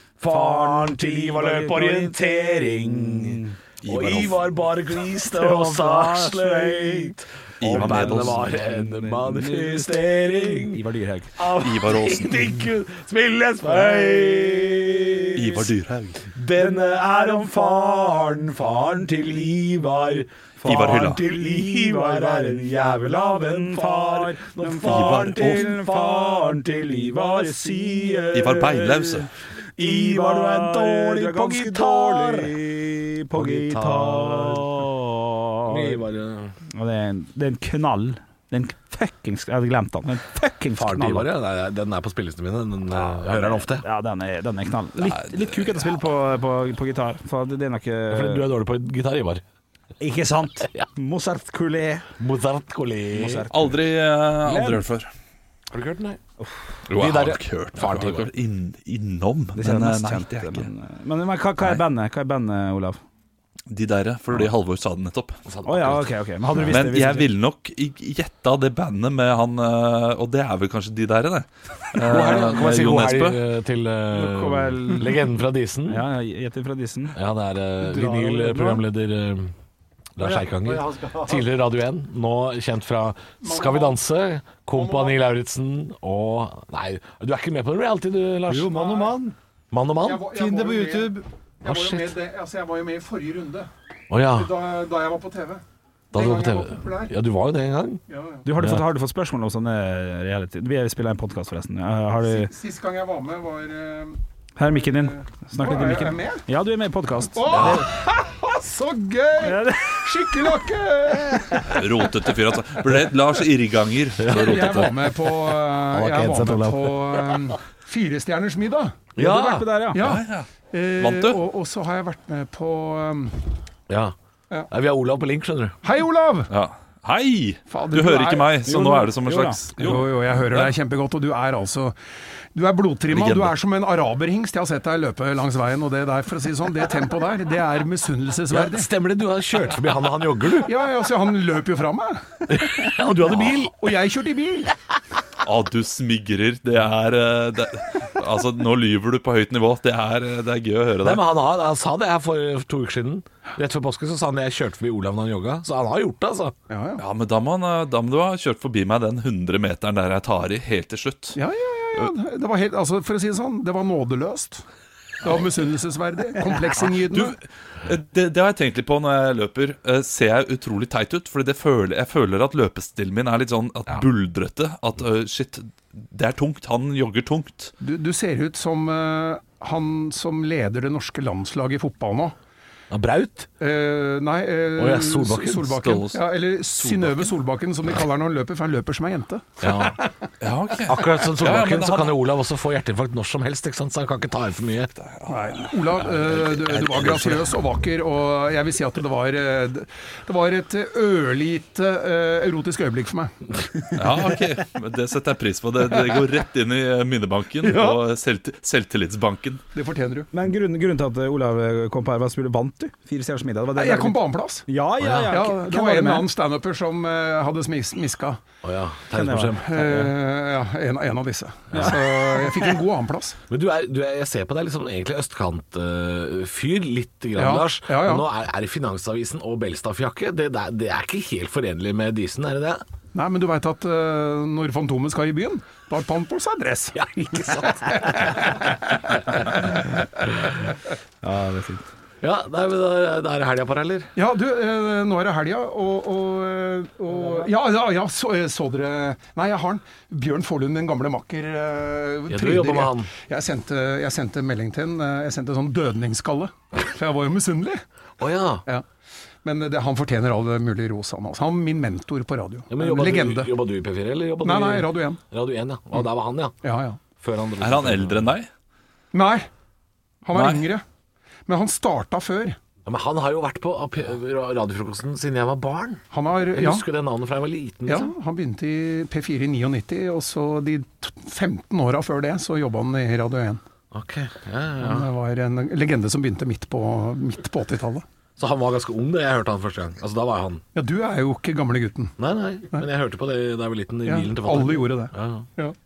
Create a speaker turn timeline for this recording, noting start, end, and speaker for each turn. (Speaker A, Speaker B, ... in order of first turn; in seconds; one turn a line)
Speaker A: 0.2-10.8
Speaker B: 0.3-3.5
Speaker C: 3.8-4.4
Speaker B: 5.2-11.4
Speaker C: 7.6-8.5
Speaker A: 11.4-15.7
Speaker C: 11.6-12.6
Speaker B: 13.7-15.3
Speaker C: 15.4-16.2
Speaker A: 16.3-28.8
Speaker B: 16.6-18.5
Speaker B: 20.6-36.0
Speaker C: 20.6-21.2
Speaker C: 24.8-25.7
Speaker C: 28.3-29.3
Speaker A: 29.8-32.6
Speaker A: 33.3-34.8
Speaker A: 35.6-36.6
Speaker B: 36.7-41.3
Speaker A: 40.8-43.9
Speaker B: 42.9-48.5
Speaker C: 45.0-45.9
Speaker A: 48.1-49.4
Speaker B: 50.0-52.1
Speaker A: 52.2-53.5
Speaker B: 53.1-53.8
Speaker C: 53.5-55.1
Speaker B: 54.4-54.8
Speaker A: 55.7-56.2
Speaker C: 56.9-60.7
Speaker A: 56.9-58.3
Speaker B: 59.5-63.0
Speaker C: 63.7-65.4
Speaker A: 65.5-66.7
Speaker B: 65.7-67.3
Speaker C: 66.7-73.4
Speaker A: 72.0-76.0
Speaker B: 74.1-75.2
Speaker B: 75.9-77.2
Speaker A: 77.2-79.5
Speaker B: 77.9-78.8
Speaker A: 80.2-89.2
Speaker B: 80.3-81.2
Speaker D: 83.4-84.0
Speaker D: 84.8-85.2
Speaker B: 88.5-89.3
Speaker D: 88.7-89.3
Speaker A: 89.7-90.3
Speaker D: 90.0-93.7
Speaker B: 90.4-91.0
Speaker A: 91.7-92.0
Speaker A: 94.1-94.5
Speaker D: 94.3-97.1
Speaker A: 96.1-98.0
Speaker D: 98.1-98.5
Speaker B: 98.4-102.5
Speaker A: 98.6-98.8
Speaker D: 102.2-104.2
Speaker B: 104.6-107.9
Speaker D: 105.0-106.4
Speaker D: 107.3-111.9
Speaker C: 107.5-107.8
Speaker B: 109.4-110.5
Speaker B: 111.1-111.9
Speaker C: 111.7-115.1
Speaker A: 114.2-114.9
Speaker D: 114.3-119.1
Speaker A: 115.9-117.0
Speaker A: 119.2-119.7
Speaker B: 119.2-120.1
Speaker D: 119.8-123.5
Speaker C: 120.0-121.4
Speaker A: 123.9-124.1
Speaker A: 124.7-125.8
Speaker D: 125.8-126.5
Speaker C: 126.5-130.8
Speaker D: 127.7-128.7
Speaker B: 128.7-130.0
Speaker D: 129.8-132.0
Speaker D: 132.5-138.9
Speaker C: 133.1-133.6
Speaker A: 138.5-140.7
Speaker D: 140.7-142.4
Speaker A: 142.5-143.8
Speaker D: 143.5-144.8
Speaker C: 145.4-151.2
Speaker A: 151.0-156.6
Speaker D: 156.7-157.0
Speaker C: 157.0-161.4
Speaker D: 161.3-164.6
Speaker D: 165.2-167.4
Speaker C: 166.9-177.7
Speaker D: 177.8-182.4
Speaker A: 182.9-183.5
Speaker D: 183.6-190.1
Speaker A: 184.8-185.7
Speaker C: 185.6-187.3
Speaker A: 189.6-190.0
Speaker C: 190.4-192.2
Speaker A: 190.9-194.9
Speaker C: 195.0-197.5
Speaker D: 195.3-204.3
Speaker C: 203.9-209.6
Speaker D: 207.6-208.0
Speaker D: 209.7-210.3
Speaker B: 210.3-216.3
Speaker D: 213.8-214.7
Speaker A: 215.0-215.3
Speaker D: 215.3-218.4
Speaker A: 218.6-219.7
Speaker B: 219.1-220.1
Speaker D: 219.6-223.4
Speaker A: 221.7-222.0
Speaker B: 221.7-222.1
Speaker A: 223.5-232.8
Speaker D: 227.4-228.3
Speaker D: 233.1-239.9
Speaker A: 236.9-238.3
Speaker B: 241.2-241.9
Speaker A: 242.2-244.1
Speaker D: 244.2-257.8
Speaker A: 252.3-253.1
Speaker A: 258.2-258.6
Speaker D: 259.4-263.5
Speaker A: 262.7-266.6
Speaker D: 264.4-265.2
Speaker D: 266.6-267.0
Speaker A: 267.2-268.3
Speaker C: 267.6-268.5
Speaker D: 269.1-269.5
Speaker D: 270.2-270.8
Speaker C: 270.3-270.7
Speaker D: 271.5-272.6
Speaker A: 272.9-278.1
Speaker D: 276.1-276.9
Speaker D: 277.9-283.6
Speaker A: 283.9-285.1
Speaker D: 284.8-288.1
Speaker A: 288.4-290.6
Speaker D: 290.8-292.1
Speaker A: 292.2-295.5
Speaker D: 294.1-295.8